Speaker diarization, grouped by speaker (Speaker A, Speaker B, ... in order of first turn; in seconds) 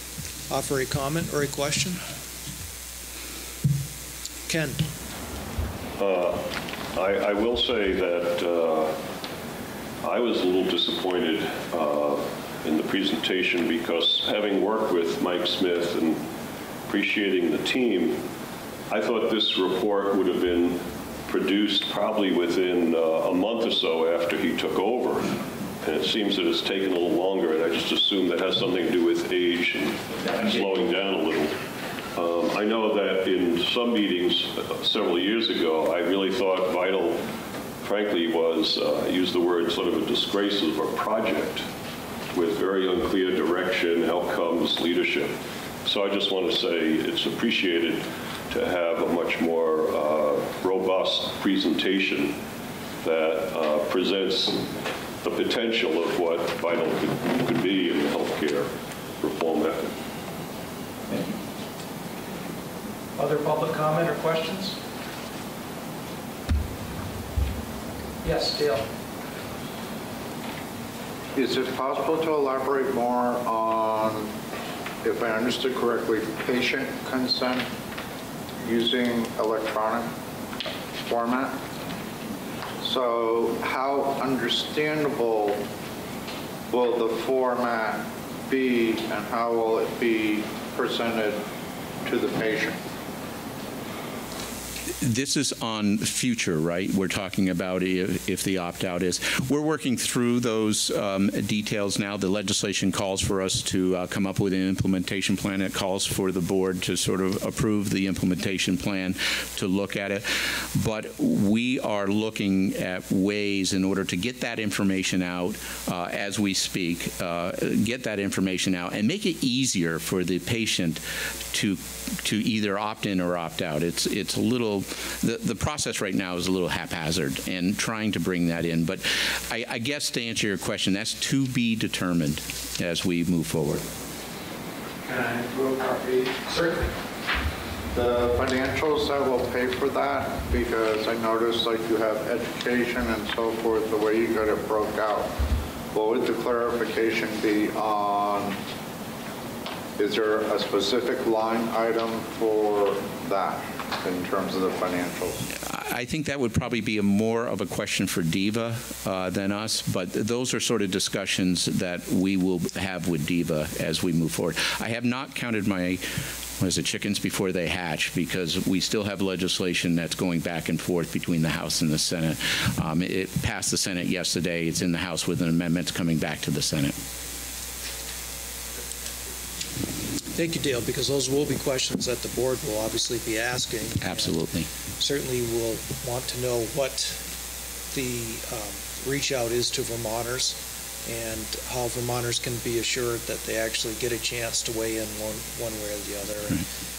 Speaker A: 0.5-2.0, 4.5-4.9, 63.1-64.8, 68.2-68.9, 135.1-136.3, 180.3-184.4, 185.0-187.2, 187.9-196.7
Speaker B: 6.0-9.0, 10.0-16.2, 16.9-18.2, 18.9-31.6, 32.1-37.2, 37.8-41.7, 42.3-52.4, 53.0-54.7, 55.2-60.0
Speaker C: 71.3-74.3, 75.0-77.7, 78.6-80.1, 81.0-81.6, 82.8-85.6, 86.7-91.4, 92.0-92.8, 135.4-135.7, 136.4-136.6, 137.9-145.3, 145.9-148.6, 150.0-155.4
Speaker D: 95.0-133.8, 155.6-166.0, 166.6-176.9, 184.0-184.7